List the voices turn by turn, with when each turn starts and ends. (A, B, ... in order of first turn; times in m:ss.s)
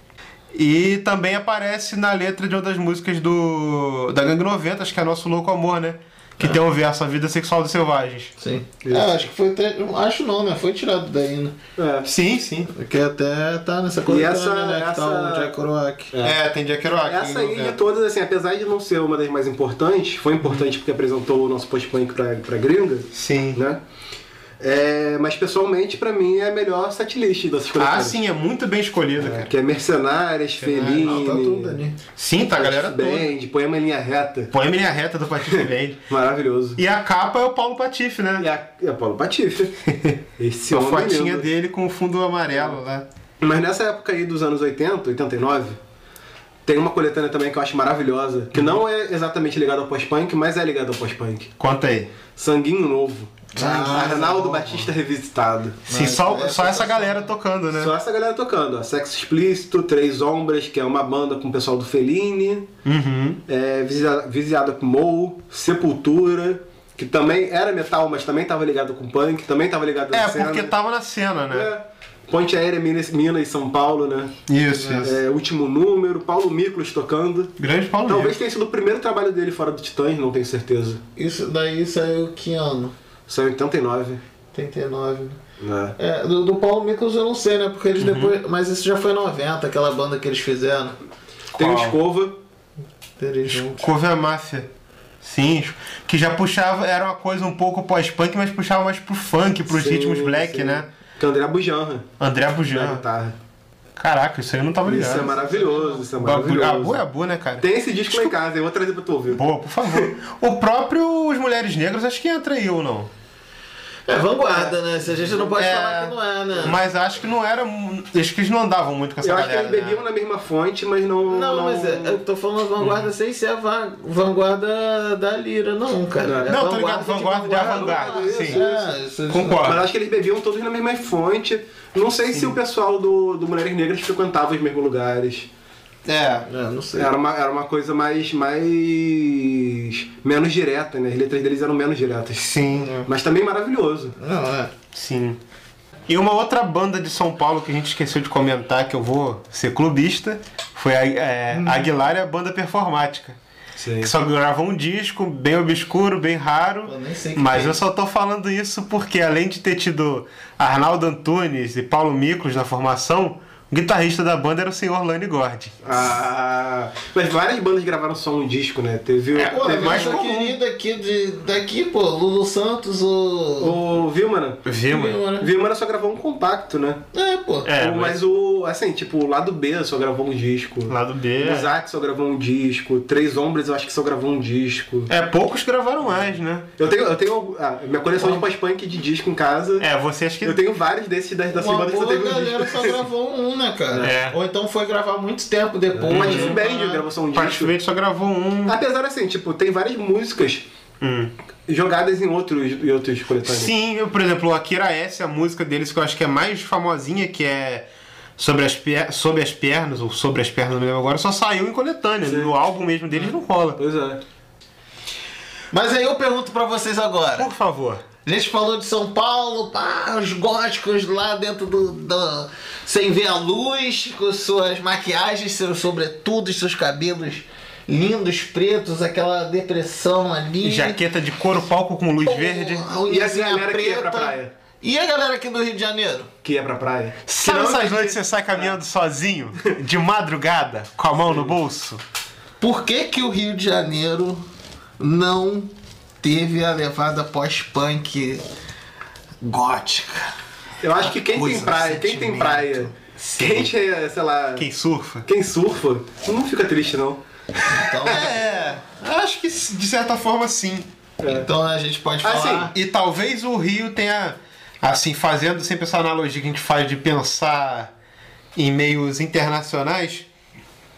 0:00.5-0:08.3 A
0:08.4-0:11.6 B
0:08.8-0:09.2 C
0:11.8-0:12.1 C
0:12.0-0:12.7 A
0:12.7-0:16.1 B
0:14.1-0:15.6 C
0:16.1-0:16.4 C
0:16.2-0:17.8 A
0:17.0-0:23.8 C
0:23.1-0:23.6 A
0:24.6-0:28.2 C
0:27.8-0:29.5 A
0:29.2-0:31.8 C
0:30.6-0:31.2 A
0:30.9-0:32.0 B
0:32.2-0:33.4 A
0:32.5-0:34.5 C
0:34.5-0:36.1 A
0:35.5-0:36.8 C
0:36.8-0:38.5 A
0:38.4-0:39.7 C
0:39.9-0:43.1 A
0:40.4-0:41.5 C
0:43.4-0:45.8 C
0:46.6-0:51.5 C
0:48.6-0:48.8 A
0:51.6-0:52.2 A
0:52.3-0:55.8 C
0:53.5-0:54.9 B
0:53.7-0:54.7 A
0:55.9-0:57.3 B
0:55.9-0:57.9 A
0:57.7-1:02.7 C
1:02.8-1:03.4 A
1:03.5-1:10.7 C
1:10.1-1:11.7 A
1:11.5-1:14.3 C
1:14.5-1:15.2 A
1:14.7-1:15.1 B
1:15.0-1:17.5 C
1:17.6-1:18.4 A
1:18.1-1:21.0 C
1:21.2-1:22.9 B
1:23.3-1:24.2 C
1:24.5-1:25.4 B
1:25.6-1:26.0 C
1:26.0-1:31.0 B
1:28.0-1:28.3 A
1:31.6-1:32.4 C
1:31.6-1:32.0 A
1:33.2-1:33.9 B
1:33.5-1:34.7 A
1:35.2-1:40.9 A
1:39.7-1:42.1 C
1:42.2-1:43.0 A
1:42.7-1:43.4 C
1:44.0-1:45.3 A
1:44.8-1:47.0 C
1:45.2-1:46.0 B
1:46.2-1:48.4 A
1:47.6-1:50.1 C
1:49.3-1:53.1 A
1:54.1-1:56.8 B
1:54.6-1:55.5 C
1:55.5-2:00.0 A
1:59.2-2:02.2 C
2:01.3-2:09.7 B
2:02.8-2:03.1 A
2:06.2-2:09.0 C
2:06.5-2:08.6 A
2:09.3-2:09.8 A
2:09.6-2:15.5 C
2:12.3-2:12.6 A
2:16.1-2:16.5 A
2:16.5-2:17.1 B
2:17.0-2:24.2 C
2:22.4-2:22.9 A
2:22.8-2:23.1 B
2:24.2-2:24.7 B
2:24.9-2:25.4 A
2:26.1-2:33.4 A
2:31.5-2:31.8 B
2:33.8-2:34.1 C
2:34.0-2:45.8 A
2:36.9-2:37.8 B
2:45.8-2:50.2 C
2:49.4-2:50.6 A
2:49.4-2:53.8 B
2:53.6-2:54.7 C
2:54.6-2:55.2 A
2:54.9-2:55.5 B
2:55.4-2:57.0 C
2:57.1-2:57.7 B
2:57.6-2:58.2 A
2:57.8-3:05.1 C
3:00.9-3:01.7 A
3:05.1-3:06.7 A
3:06.8-3:09.9 C
3:08.2-3:08.4 B
3:09.8-3:10.6 A
3:10.4-3:13.0 C
3:11.5-3:17.0 B
3:14.0-3:14.4 A
3:16.0-3:17.7 C
3:16.1-3:16.6 A
3:17.3-3:18.8 A
3:18.7-3:20.7 C
3:21.0-3:21.3 A
3:21.7-3:23.7 C
3:23.4-3:27.9 A
3:28.4-3:33.8 A
3:32.2-3:32.5 C
3:33.8-3:34.2 C
3:35.7-3:37.5 B
3:37.4-3:38.0 A
3:38.2-3:51.0 B
3:50.6-3:52.9 A
3:52.2-3:56.3 B
3:53.1-3:54.5 C
3:56.4-3:58.8 C
3:57.3-4:02.0 A
4:01.3-4:01.6 C
4:02.6-4:04.4 B
4:05.0-4:08.4 B
4:09.4-4:10.3 B
4:10.8-4:14.7 C
4:11.0-4:12.9 B
4:13.2-4:13.7 A
4:14.6-4:15.3 A
4:15.3-4:17.2 C
4:17.7-4:18.6 B
4:18.0-4:20.9 A
4:21.2-4:21.5 C
4:21.3-4:22.7 B
4:22.2-4:22.7 C
4:22.7-4:27.9 A
4:28.6-4:30.3 A